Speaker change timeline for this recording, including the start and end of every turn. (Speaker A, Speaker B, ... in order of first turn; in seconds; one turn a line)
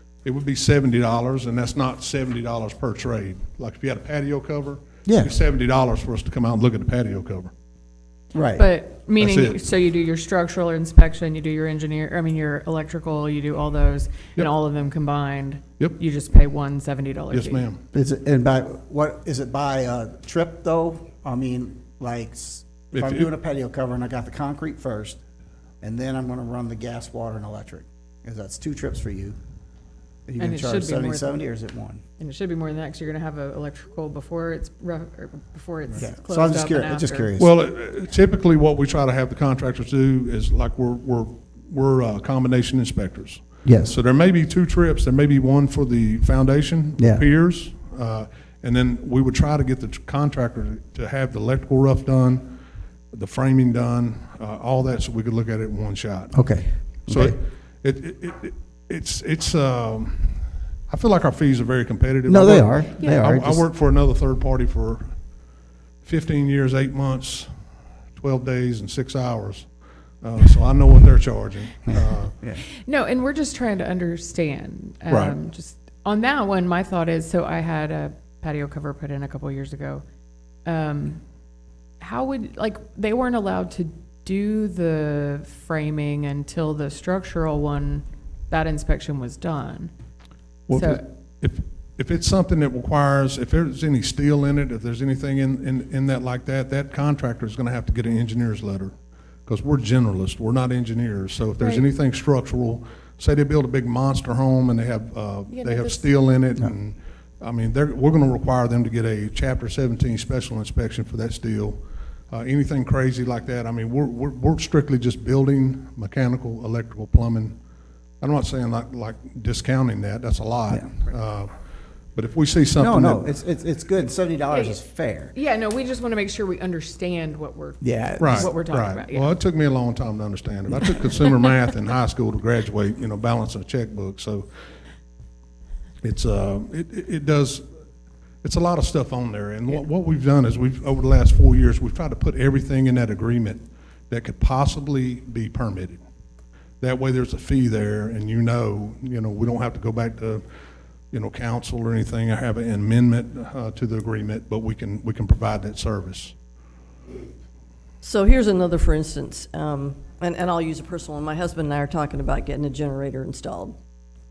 Speaker A: 0.2-7.5
Speaker B: 5.0-5.4
Speaker B: 8.3-8.7
Speaker C: 8.6-17.7
Speaker A: 9.2-9.6
Speaker A: 17.3-17.8
Speaker B: 17.9-25.2
Speaker A: 22.9-23.3
Speaker B: 25.8-29.4
Speaker B: 30.3-32.0
Speaker C: 30.4-31.4
Speaker C: 32.2-37.3
Speaker B: 36.0-37.5
Speaker A: 37.4-52.6
Speaker B: 43.6-44.0
Speaker B: 47.0-47.2
Speaker A: 53.1-56.5
Speaker B: 56.3-57.4
Speaker A: 57.1-65.2
Speaker B: 62.3-63.6
Speaker A: 66.0-67.5
Speaker A: 68.2-69.7
Speaker A: 70.2-72.3
Speaker B: 71.9-72.7
Speaker C: 72.8-80.0
Speaker A: 75.1-75.4
Speaker C: 80.7-81.2
Speaker C: 82.0-89.9
Speaker A: 90.7-98.9
Speaker C: 90.7-91.0
Speaker A: 99.5-117.6
Speaker C: 101.6-101.8
Speaker C: 105.5-106.0
Speaker A: 118.2-121.5
Speaker B: 120.7-120.9
Speaker A: 122.2-123.3
Speaker B: 122.8-125.3
Speaker C: 124.5-124.8
Speaker C: 125.3-129.3
Speaker B: 127.8-128.5
Speaker A: 128.2-134.5
Speaker A: 136.0-137.7
Speaker A: 138.4-146.0
Speaker A: 146.8-150.4
Speaker A: 151.1-156.3
Speaker D: 158.0-163.8